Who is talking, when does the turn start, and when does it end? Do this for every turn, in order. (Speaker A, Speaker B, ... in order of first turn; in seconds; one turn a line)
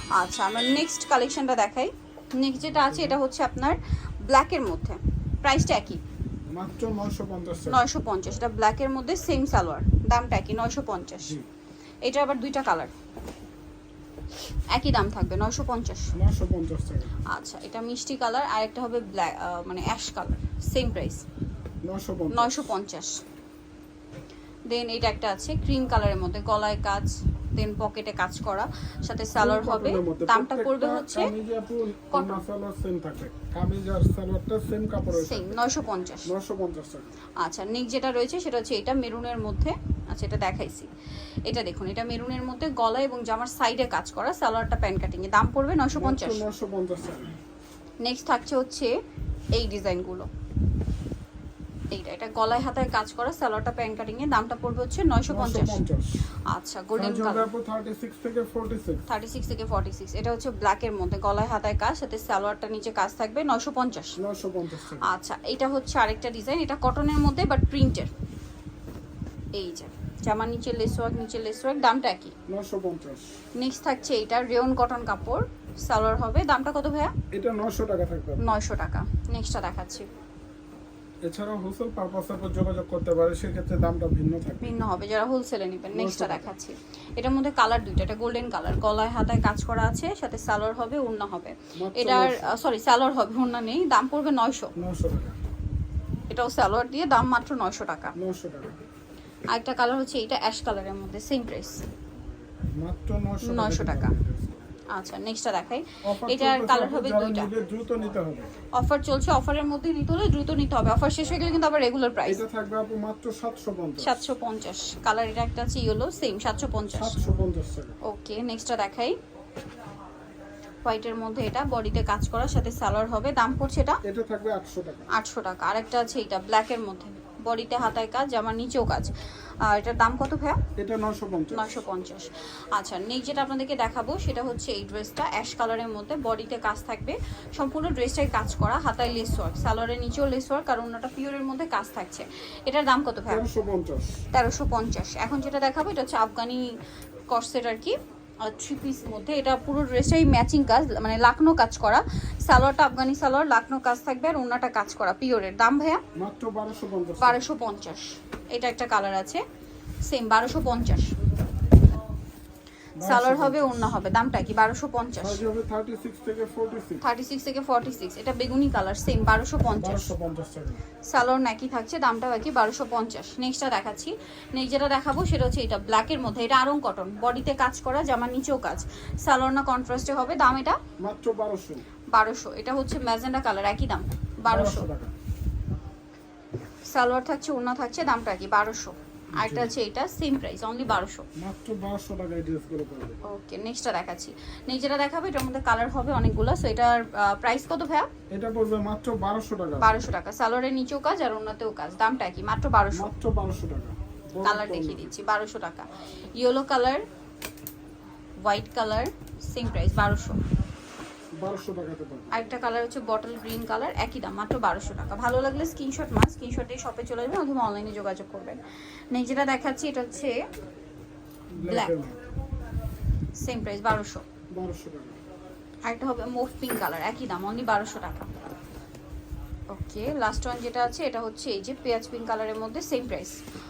Speaker A: 0.1-6.0
Speaker B: 2.7-3.2
Speaker B: 6.5-7.8
Speaker A: 7.7-11.3
Speaker A: 12.1-12.9
Speaker A: 14.7-16.1
Speaker B: 16.1-17.2
Speaker A: 17.3-21.2
Speaker B: 21.8-22.7
Speaker A: 22.3-23.2
Speaker A: 24.7-31.3
Speaker B: 29.4-35.6
Speaker A: 32.1-32.5
Speaker A: 35.1-36.3
Speaker B: 36.3-37.1
Speaker A: 37.4-40.9
Speaker A: 41.5-46.4
Speaker B: 46.0-47.3
Speaker A: 48.0-48.9
Speaker A: 49.5-50.3
Speaker A: 51.9-55.8
Speaker B: 55.3-56.2
Speaker A: 56.5-57.5
Speaker B: 57.0-59.1
Speaker A: 59.1-64.2
Speaker B: 64.2-65.1
Speaker A: 65.0-68.1
Speaker A: 69.6-72.3
Speaker B: 72.5-73.4
Speaker A: 73.6-77.1
Speaker B: 77.3-78.4
Speaker A: 78.4-80.1
Speaker B: 81.2-84.8
Speaker A: 84.6-94.7
Speaker B: 85.9-86.5
Speaker B: 91.8-92.5
Speaker B: 94.8-95.4
Speaker A: 96.3-98.1
Speaker B: 98.2-98.8
Speaker A: 99.5-101.9
Speaker B: 102.8-104.8
Speaker A: 103.4-104.1
Speaker A: 104.9-107.5
Speaker B: 106.0-108.5
Speaker A: 108.8-112.4
Speaker B: 112.3-114.2
Speaker A: 114.0-117.2
Speaker B: 116.9-118.0
Speaker A: 118.0-119.2
Speaker A: 120.8-124.0
Speaker B: 124.0-125.1
Speaker A: 125.1-129.1
Speaker A: 129.6-130.6
Speaker B: 130.8-131.8
Speaker A: 131.5-143.4
Speaker B: 143.3-144.2
Speaker A: 144.3-146.7
Speaker A: 147.3-156.0
Speaker B: 156.2-157.4
Speaker A: 157.2-159.4
Speaker A: 160.1-161.1
Speaker B: 163.0-163.9
Speaker A: 163.0-165.4
Speaker B: 165.2-167.0
Speaker A: 167.0-170.1
Speaker B: 169.8-170.8
Speaker A: 171.1-180.8
Speaker B: 181.0-181.8
Speaker A: 182.1-184.9
Speaker B: 184.5-185.1
Speaker A: 186.9-191.3
Speaker B: 189.4-189.8
Speaker B: 191.4-193.2
Speaker A: 193.2-198.1
Speaker B: 198.3-200.0
Speaker A: 199.8-203.1
Speaker B: 202.9-205.1
Speaker A: 204.4-207.0
Speaker A: 208.4-210.4
Speaker B: 211.4-212.3
Speaker A: 212.3-218.6
Speaker A: 219.1-220.4
Speaker B: 221.5-222.2
Speaker A: 221.6-222.1
Speaker A: 223.4-224.2
Speaker B: 224.5-225.2
Speaker A: 225.8-228.3
Speaker A: 229.7-233.4